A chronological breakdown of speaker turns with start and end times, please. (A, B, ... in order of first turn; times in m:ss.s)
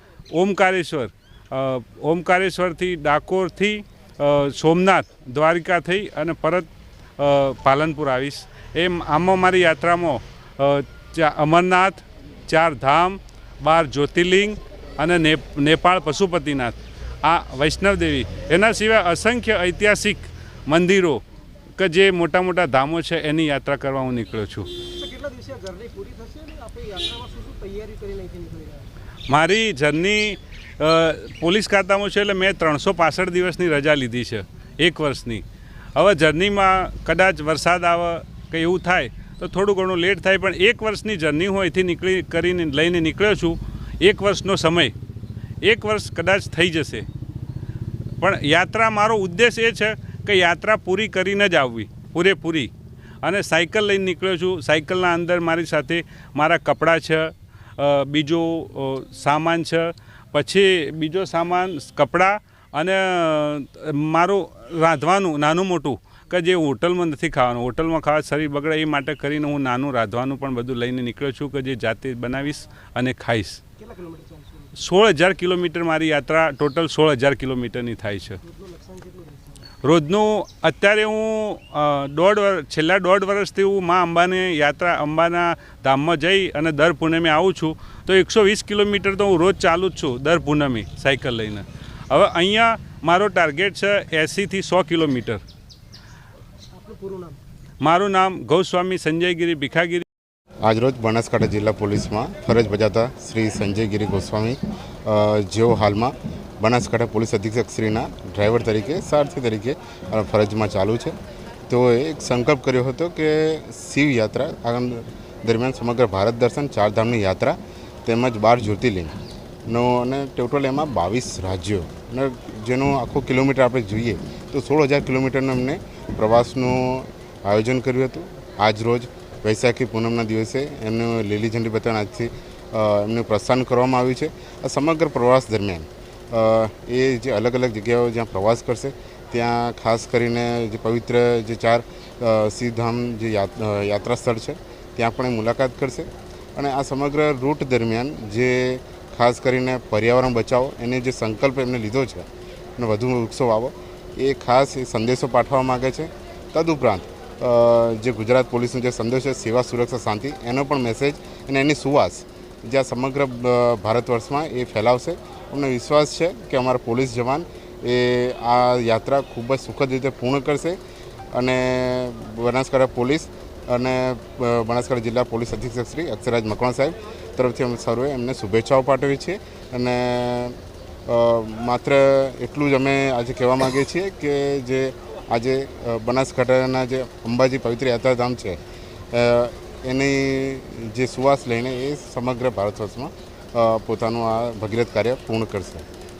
0:00.3-0:21.2 A
0:21.8-0:24.7 A
0:24.8-0:28.9 B
0:29.3-0:35.4 A
0:36.0-0:44.9 A
0:45.6-0:47.1 A
0:48.2-0:52.7 A
0:53.2-1:13.6 A
1:13.8-1:14.8 B
1:14.8-1:18.4 A
1:18.4-1:19.7 B
1:19.8-1:35.4 A
1:36.7-1:37.4 B
1:37.8-1:40.0 A
1:40.6-1:51.2 C
1:51.7-1:59.1 C
1:59.7-2:50.8 C
2:51.3-3:08.6 C
3:09.1-3:15.8 C